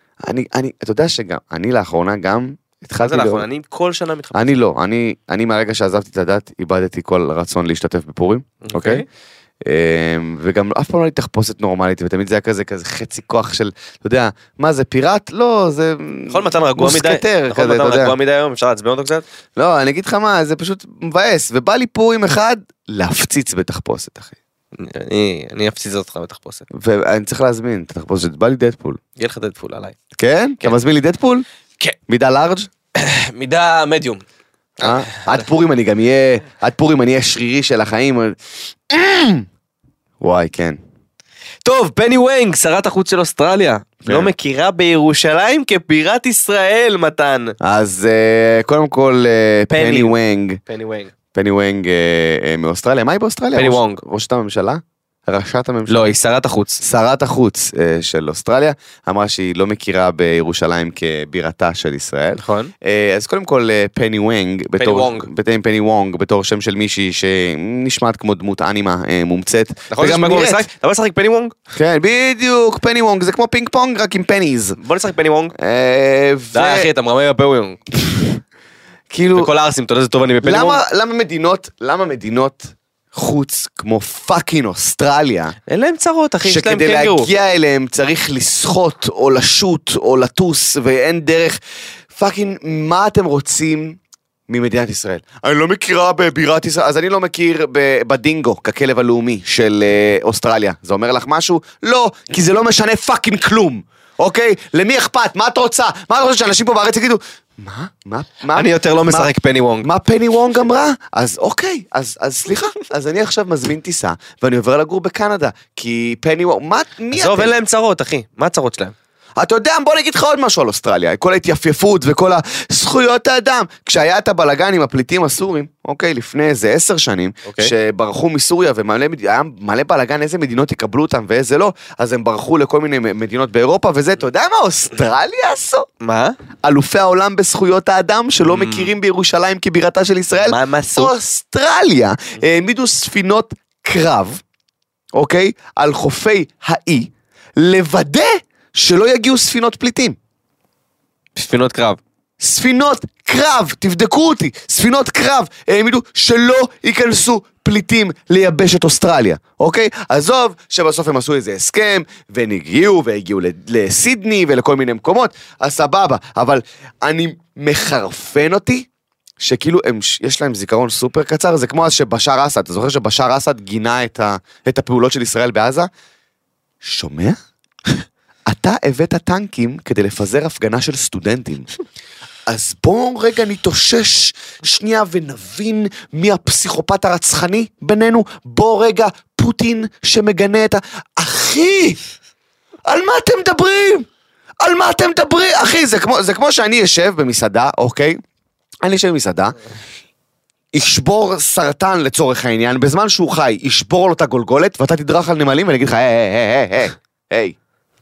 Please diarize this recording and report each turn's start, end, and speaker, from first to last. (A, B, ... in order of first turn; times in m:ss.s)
0:00.2-0:03.5 A
0:03.0-0:04.6 B
0:04.3-0:09.1 A
0:08.6-0:09.1 B
0:09.6-0:18.1 A
0:16.3-0:19.2 B
0:19.6-0:24.4 A
0:24.8-0:26.7 B
0:26.7-0:29.0 A
0:29.2-0:30.0 B
0:30.2-0:31.4 A
0:32.1-0:32.7 A
0:33.0-0:34.2 B
0:34.8-0:38.4 A
0:34.8-0:35.4 B
0:38.9-0:39.4 A
0:40.2-0:40.8 A
0:41.6-0:47.6 B
0:44.0-0:44.3 A
0:47.6-0:50.6 A
0:49.7-0:51.1 B
0:51.3-0:56.1 A
0:53.6-0:54.0 B
0:55.9-0:56.8 B
0:56.8-1:10.6 A
1:02.4-1:02.7 B
1:04.8-1:05.3 B
1:09.9-1:11.6 B
1:11.7-1:14.8 A
1:14.8-1:15.5 B
1:15.6-1:16.9 A
1:16.5-1:17.8 B
1:19.1-1:19.5 A
1:19.3-1:20.8 B
1:20.4-1:25.6 A
1:25.7-1:27.3 B
1:26.4-1:31.6 A
1:32.1-1:49.3 A
1:48.5-1:49.9 B
1:49.8-1:57.5 A
1:57.1-1:58.9 B
1:59.4-2:15.9 A
2:07.4-2:07.7 B
2:16.0-2:16.4 B
2:16.6-2:24.4 A
2:18.5-2:18.9 B
2:20.4-2:21.1 B
2:25.1-2:30.2 A
2:31.4-2:32.0 B
2:32.4-2:48.9 A
2:49.4-2:55.9 A
2:56.8-2:57.4 A
2:58.5-3:01.7 A
3:02.5-3:12.0 A
3:12.9-3:14.1 A
3:14.6-3:18.2 A
3:18.8-3:19.6 A
3:20.7-3:27.6 A